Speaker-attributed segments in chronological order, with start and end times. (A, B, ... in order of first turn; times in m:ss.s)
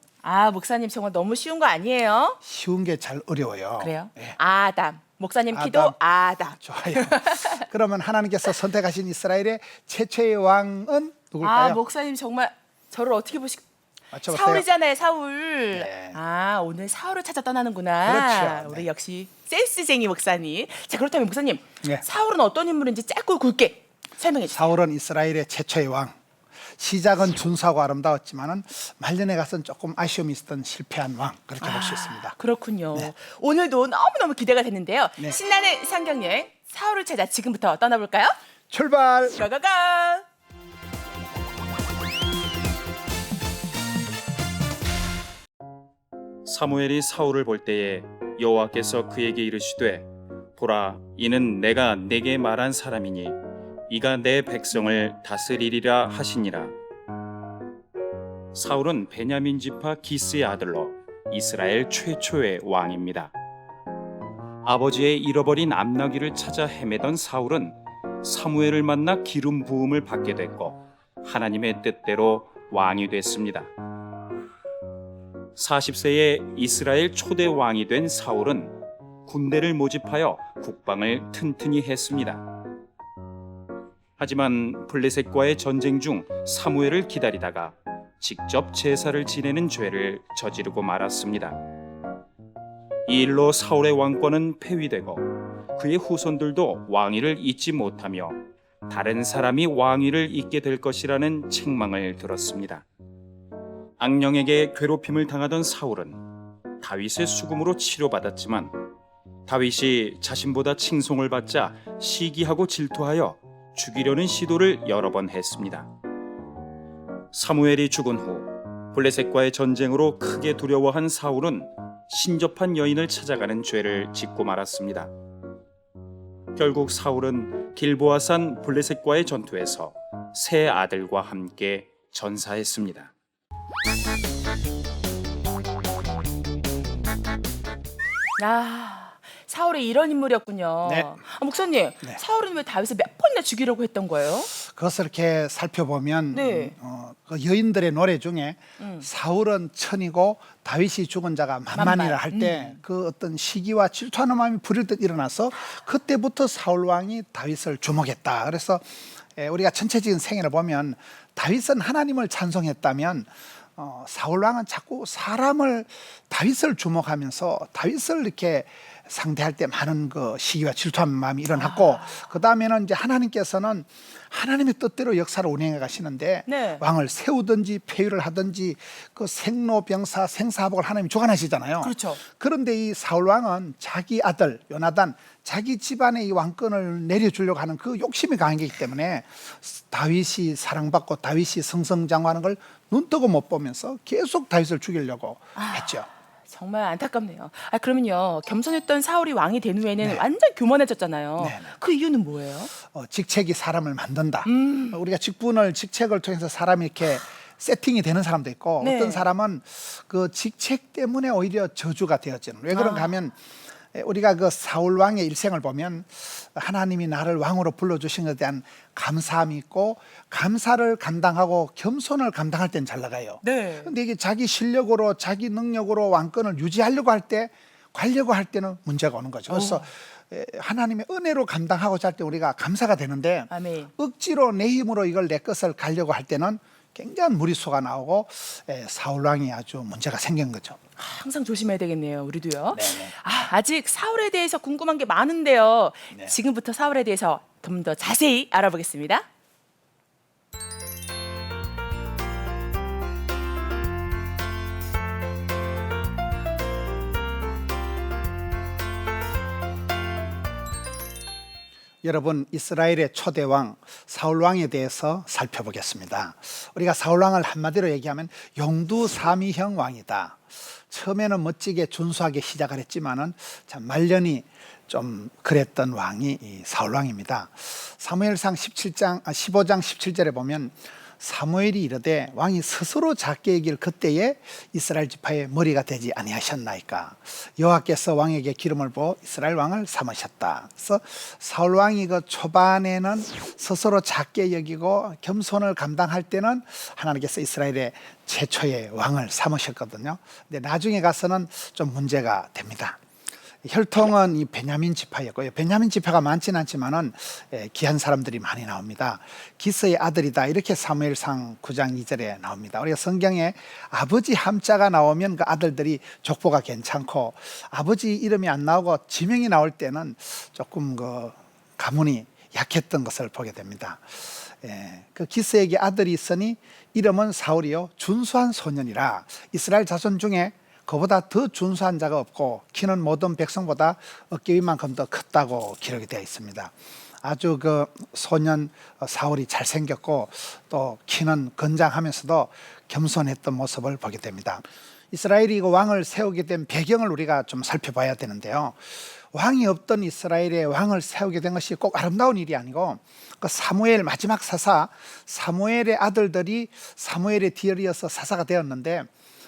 0:00.2-0:02.4 A
0:02.4-0:04.4 B
0:03.8-0:07.7 A
0:05.5-0:06.0 B
0:06.6-0:11.8 B
0:11.4-0:13.6 A
0:14.1-0:14.6 B
0:14.2-0:24.7 A
0:15.7-0:16.2 B
0:18.0-0:18.8 B
0:24.5-0:26.2 B
0:26.8-0:32.3 B
0:31.6-0:38.4 A
0:38.7-0:39.4 B
0:39.4-0:40.2 A
0:46.4-0:53.4 C
0:53.9-0:56.7 C
0:58.5-1:03.3 C
1:04.6-1:13.7 C
1:15.6-1:22.4 C
1:24.2-1:31.6 C
1:33.0-1:42.8 C
1:44.0-1:46.2 C
1:46.8-1:48.7 C
1:49.4-1:55.9 C
1:57.3-2:05.1 C
2:06.6-2:13.1 C
2:18.4-2:24.5 A
2:20.8-2:21.1 B
2:24.5-3:16.1 B
2:26.3-2:26.7 A
2:28.8-2:29.1 A
2:31.7-2:32.8 A
2:51.5-2:52.2 A
2:56.5-2:56.8 A
3:01.8-3:02.2 A
3:15.6-3:22.7 A
3:21.4-3:21.8 B
3:22.7-3:33.4 B
3:24.4-3:25.0 A
3:28.8-3:29.3 A
3:32.7-3:33.1 A
3:33.9-4:00.8 B
3:43.4-3:43.9 A
3:49.5-3:49.9 A
3:53.5-3:53.9 A
4:01.0-4:09.2 A
4:02.7-4:03.1 B
4:22.0-5:03.0 B
5:03.6-5:59.1 B